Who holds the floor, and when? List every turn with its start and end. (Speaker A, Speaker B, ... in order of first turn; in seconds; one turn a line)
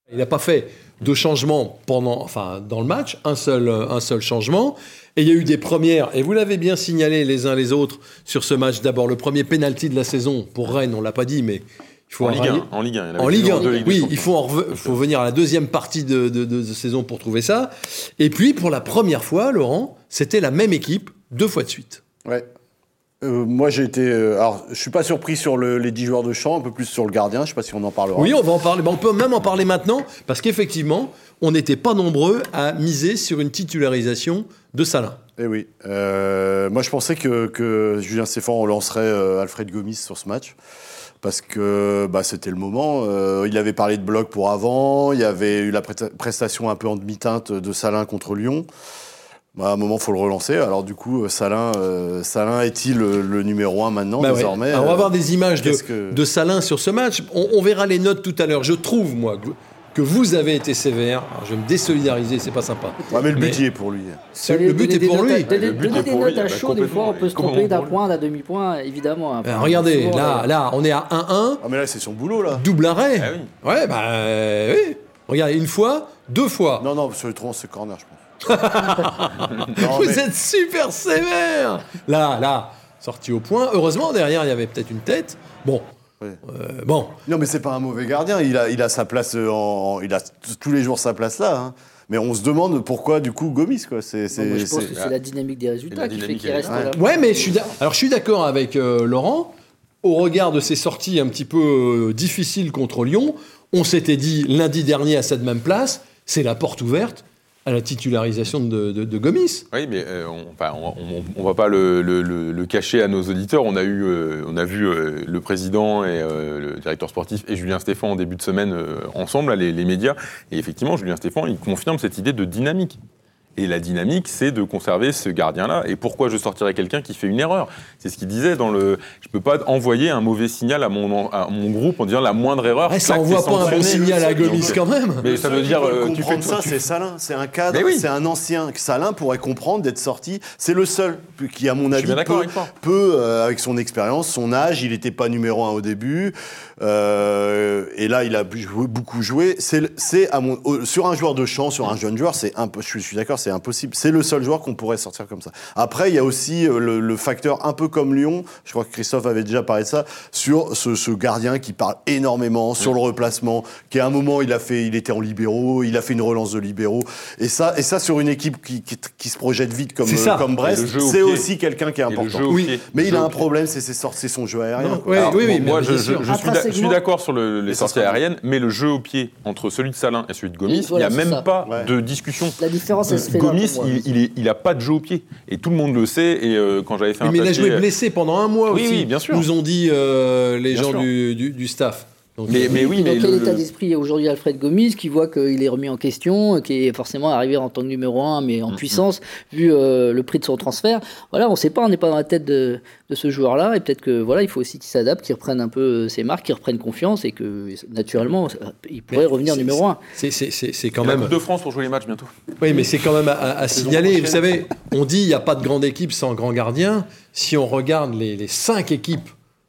Speaker A: 0.1-22.0
Speaker B: 12.2-15.0
Speaker C: 13.3-14.0
Speaker D: 23.2-28.4
Speaker A: 28.2-35.2
Speaker D: 35.4-40.6
Speaker D: 41.2-48.7
Speaker D: 49.5-56.2
Speaker A: 54.2-63.6
Speaker D: 63.1-64.2
Speaker A: 64.3-65.5
Speaker C: 64.5-70.5
Speaker B: 65.5-68.0
Speaker A: 69.4-71.6
Speaker D: 71.6-72.7
Speaker A: 72.5-76.9
Speaker B: 73.2-73.5
Speaker D: 76.8-78.2
Speaker A: 78.5-85.9
Speaker D: 79.7-80.2
Speaker A: 86.4-87.2
Speaker D: 87.3-94.9
Speaker C: 94.3-97.5
Speaker B: 95.9-96.9
Speaker A: 97.0-109.7
Speaker B: 109.7-123.0
Speaker B: 123.6-136.8
Speaker A: 132.9-135.2
Speaker D: 133.5-175.8
Speaker B: 137.7-138.1
Speaker B: 141.9-142.7
Speaker A: 170.1-170.5
Speaker B: 170.6-171.5
Speaker B: 172.1-173.4
Speaker A: 172.5-172.8
Speaker A: 174.8-176.3
Speaker B: 175.1-187.8
Speaker C: 176.3-177.0
Speaker D: 177.7-178.2
Speaker C: 180.7-181.4
Speaker D: 181.7-181.9
Speaker C: 182.6-184.0
Speaker A: 187.2-192.9
Speaker B: 188.7-189.5
Speaker B: 190.7-191.1
Speaker B: 192.5-193.6
Speaker C: 192.7-210.0
Speaker B: 198.7-199.0
Speaker A: 210.1-211.3
Speaker B: 211.0-212.3
Speaker A: 212.6-219.3
Speaker D: 213.6-214.5